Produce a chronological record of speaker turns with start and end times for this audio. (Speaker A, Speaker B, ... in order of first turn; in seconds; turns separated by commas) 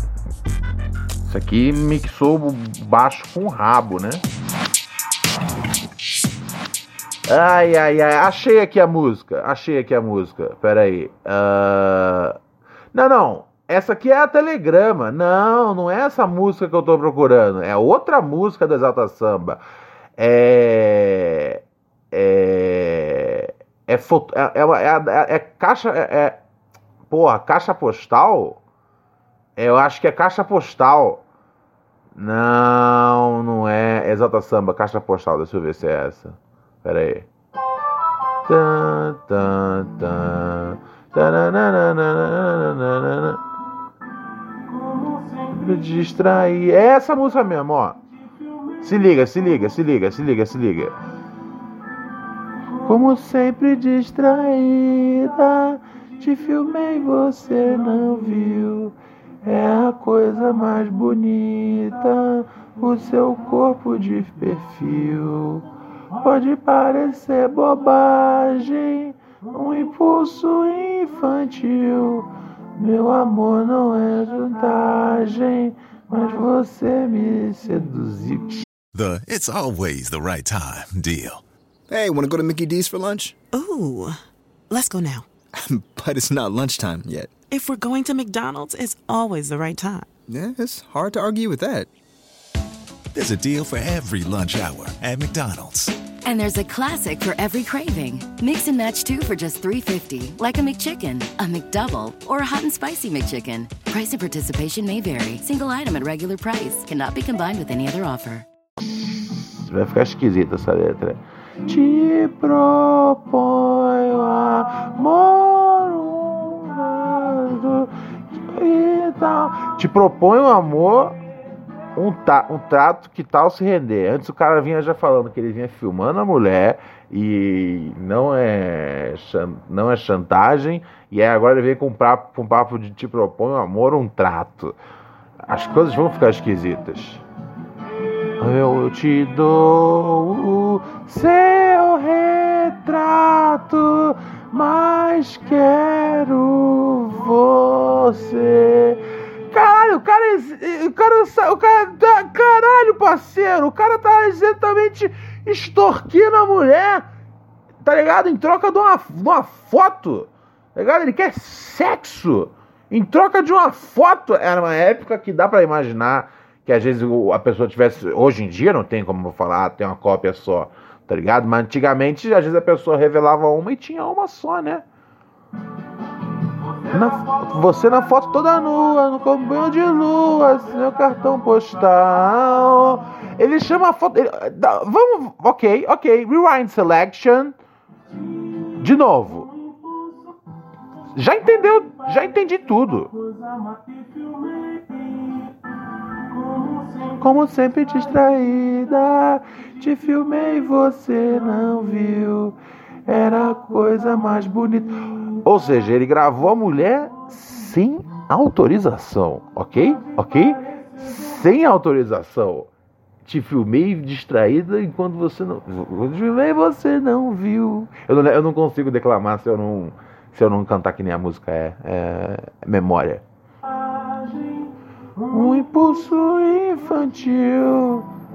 Speaker A: 1.3-4.2, Speaker A: 7.3-12.4, Speaker A: 12.9-19.6, Speaker A: 20.2-21.6, Speaker A: 22.1-26.4, Speaker A: 27.1-28.6, Speaker A: 29.6-31.2, Speaker A: 32.1-37.3, Speaker A: 38.4-43.4, Speaker A: 45.4-48.0, Speaker A: 48.8-50.9, Speaker A: 52.8-65.7, Speaker A: 66.2-78.6, Speaker B: 78.9-81.4, Speaker C: 81.9-83.4, Speaker D: 83.5-85.3, Speaker C: 85.5-87.3, Speaker D: 87.5-90.1, Speaker C: 90.3-91.9, Speaker B: 93.1-95.9, Speaker E: 96.2-108.5, Speaker A: 108.8-121.2, Speaker A: 122.0-134.8, Speaker A: 135.5-137.2, Speaker A: 138.4-157.1, Speaker A: 157.8-174.8, Speaker A: 176.9-187.5, Speaker A: 188.8-189.5, Speaker A: 191.1-193.1, Speaker A: 197.1-212.7, Speaker A: 213.2-223.2, Speaker A: 225.3-228.1